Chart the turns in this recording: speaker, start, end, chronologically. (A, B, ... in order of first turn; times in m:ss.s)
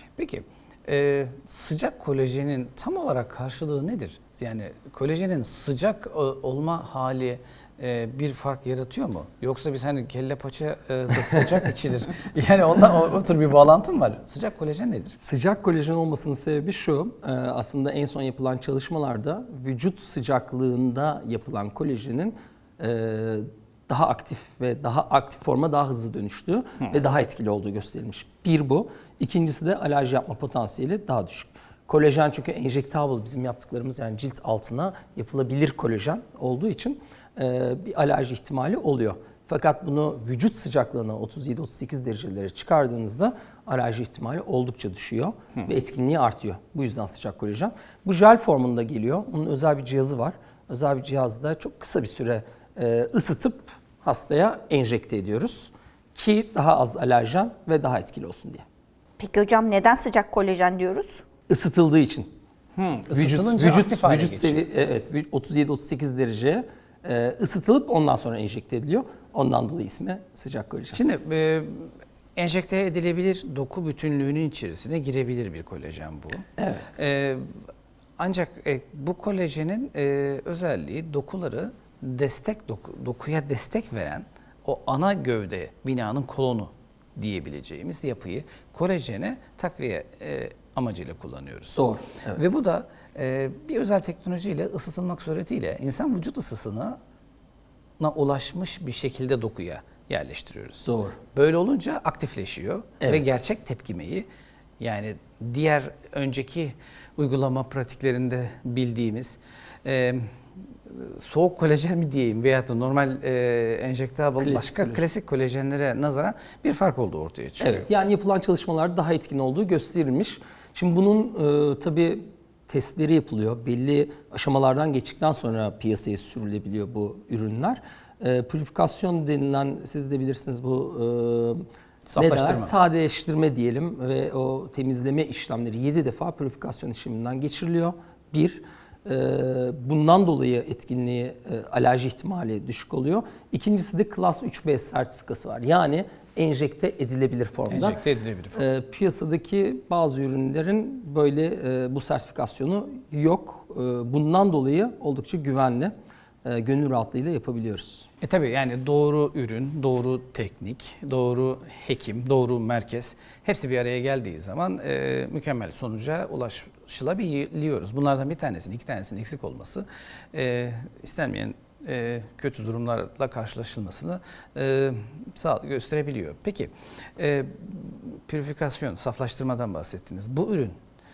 0:00.2-0:15.1 A
0:15.2-0:58.6 B
0:59.2-1:01.2 C
1:01.5-1:02.3 B
1:02.8-1:04.6 A
1:03.1-1:11.0 B
1:10.9-1:17.4 A
1:16.6-1:17.0 B
1:18.2-1:37.0 A
1:31.7-1:32.4 B
1:38.0-1:44.2 A
1:40.8-1:41.2 B
1:43.0-1:43.4 B
1:44.8-1:50.2 A
1:50.9-1:57.9 A
1:54.4-1:55.0 B
1:57.6-2:11.6 B
2:12.0-2:12.7 A
2:12.1-2:28.0 B
2:27.7-2:28.6 A
2:28.5-2:35.9 B
2:36.4-2:38.1 B
2:38.2-3:00.8 A